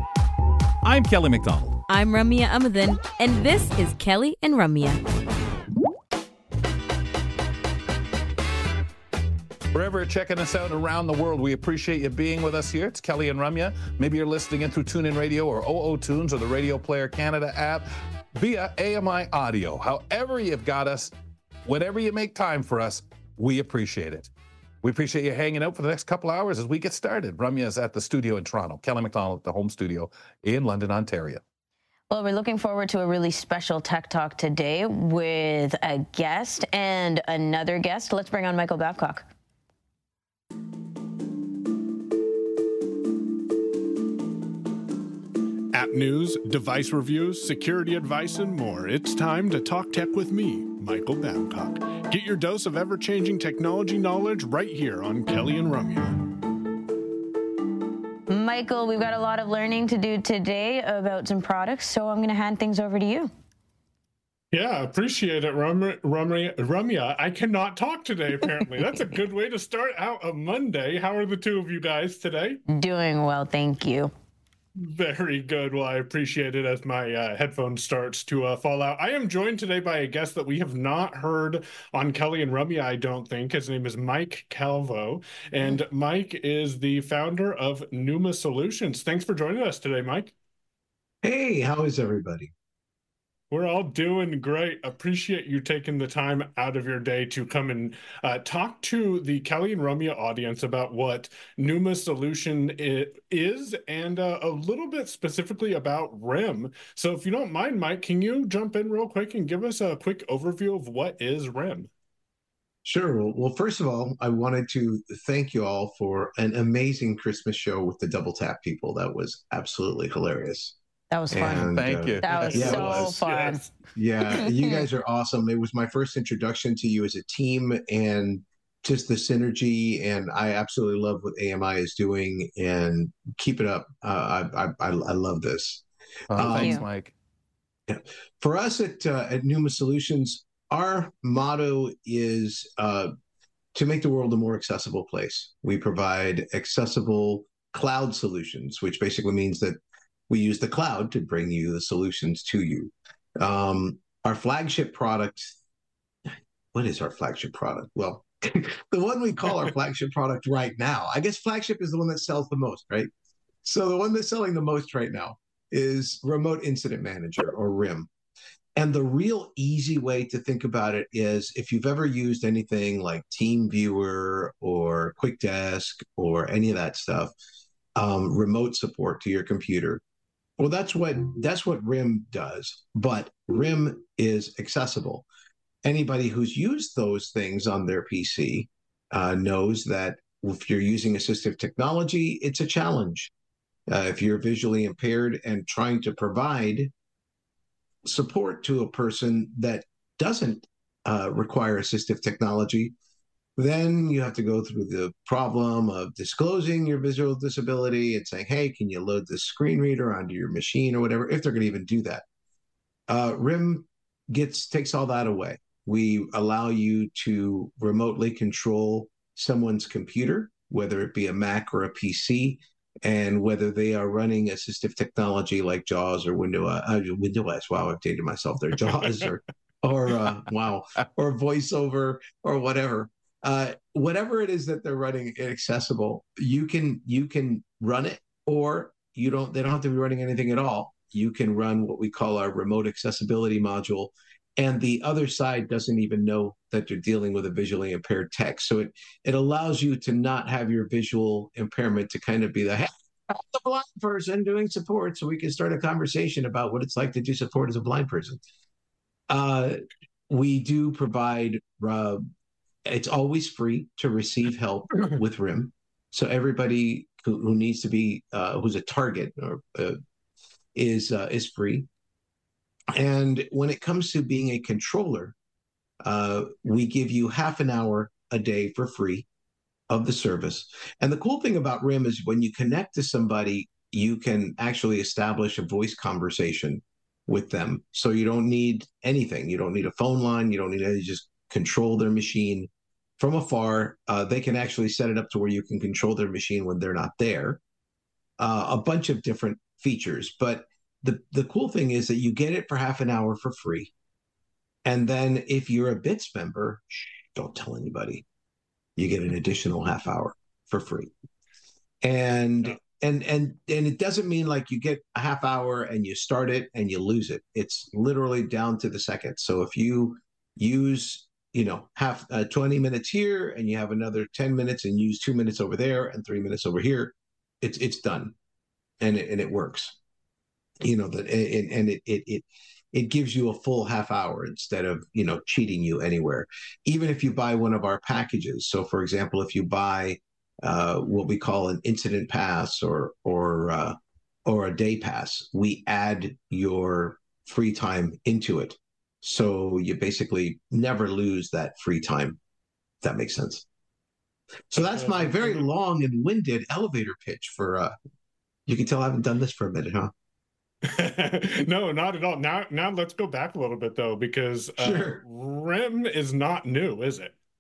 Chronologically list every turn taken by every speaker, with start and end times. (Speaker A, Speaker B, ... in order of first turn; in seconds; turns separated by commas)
Speaker A: 0.8-1.8, Speaker B: 1.9-5.0, Speaker A: 9.7-21.1, Speaker A: 21.6-24.3, Speaker A: 24.8-31.4, Speaker C: 32.1-39.3, Speaker D: 45.7-56.1, Speaker C: 58.3-63.3, Speaker D: 64.5-72.6, Speaker C: 72.7-74.1, Speaker D: 74.8-90.3, Speaker E: 91.2-92.5, Speaker D: 93.5-111.9, Speaker E: 112.8-120.8, Speaker C: 121.1-123.6, Speaker E: 121.3-123.2, Speaker A: 121.6-123.1, Speaker D: 122.5-123.7, Speaker E: 124.0-135.8, Speaker C: 124.3-124.8, Speaker A: 136.3-137.2, Speaker E: 136.4-136.8, Speaker C: 136.4-136.8, Speaker E: 137.9-143.1, Speaker E: 143.8-149.8, Speaker E: 150.3-155.6, Speaker E: 156.7-163.1, Speaker E: 163.6-168.1, Speaker E: 168.8-177.3, Speaker E: 178.0-180.0, Speaker E: 180.6-185.3, Speaker E: 185.8-193.3, Speaker E: 193.9-196.9, Speaker E: 198.1-202.9, Speaker E: 203.6-212.2, Speaker E: 213.1-258.4, Speaker E: 259.3-259.8, Speaker E: 260.3-262.2, Speaker E: 262.9-270.0, Speaker E: 270.8-271.9, Speaker E: 272.9-275.4, Speaker E: 276.0-279.3, Speaker E: 279.9-297.6, Speaker E: 298.4-303.9, Speaker E: 304.9-308.2, Speaker E: 309.0-311.1, Speaker E: 312.0-328.4, Speaker E: 329.0-330.0, Speaker E: 330.8-352.4, Speaker E: 353.0-353.7, Speaker E: 354.7-357.9, Speaker D: 354.9-355.6, Speaker E: 358.7-360.1, Speaker D: 360.9-367.3, Speaker E: 364.8-365.2